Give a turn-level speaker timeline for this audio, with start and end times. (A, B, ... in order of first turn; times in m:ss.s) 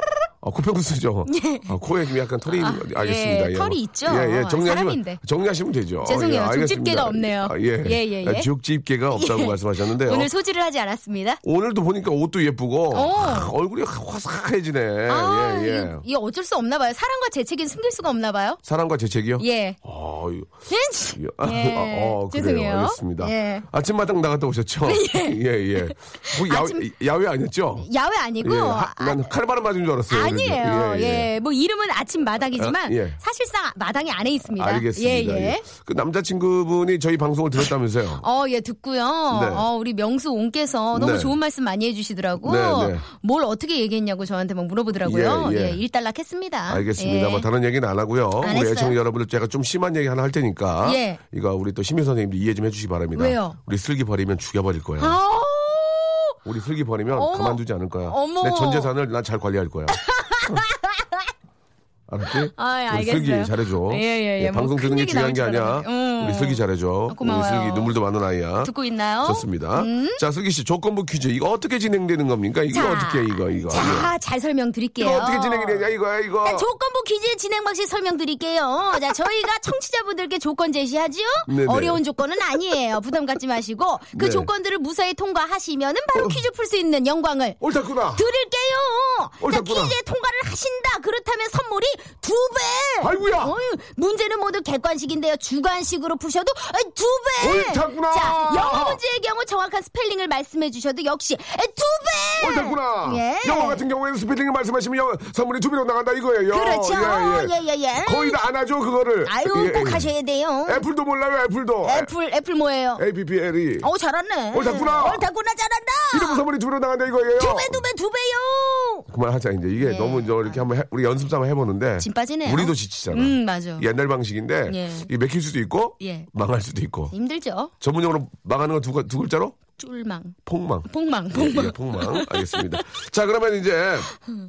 0:00.4-0:10.3 A
0:01.3-0:01.7 B
0:02.5-0:05.2 B
0:06.0-0:08.5 B
0:09.1-0:11.4 B
0:11.4-0:16.0 A
0:12.9-0:13.5 B
0:15.1-0:18.6 B
0:18.6-0:20.5 A
0:19.4-0:19.8 B
0:20.7-0:23.7 B
0:21.2-0:27.9 A
0:24.8-0:26.9 B
0:27.8-0:29.3 B
0:28.4-0:31.3 A
0:30.1-0:35.6 B
0:32.6-0:33.2 A
0:34.6-0:38.2 A
0:38.2-0:47.5 B
0:39.3-0:39.7 A
0:40.9-0:41.4 A
0:42.4-0:43.0 A
0:45.0-0:45.8 A
0:46.7-0:55.2 A
0:48.4-0:49.0 B
0:50.8-0:51.2 B
0:53.2-0:53.6 B
0:55.0-0:56.4 B
0:56.4-1:00.6 A
0:57.1-0:58.9 B
1:00.0-1:01.3 B
1:02.1-1:14.1 A
1:02.3-1:07.9 B
1:08.6-1:10.2 B
1:12.7-1:15.9 B
1:15.0-1:16.7 A
1:16.4-1:27.6 B
1:21.5-1:22.0 A
1:24.2-1:24.5 A
1:26.2-1:26.4 A
1:27.6-1:28.2 A
1:28.1-1:43.8 B
1:29.4-1:30.0 A
1:33.0-1:33.5 A
1:37.4-1:39.0 A
1:42.4-1:50.1 A
1:46.5-1:48.4 B
1:49.2-1:50.8 B
1:50.7-1:52.1 A
1:51.8-1:53.0 B
1:53.0-1:53.9 A
1:53.8-1:56.4 B
1:54.5-1:55.3 A
1:56.1-1:57.8 A
1:57.4-1:59.0 B
1:59.1-2:07.1 A
1:59.8-2:00.6 B
2:02.0-2:03.9 B
2:04.7-2:05.1 B
2:06.0-2:06.3 B
2:07.1-2:07.7 B
2:07.8-2:09.6 A
2:09.8-2:12.6 B
2:10.5-2:14.1 A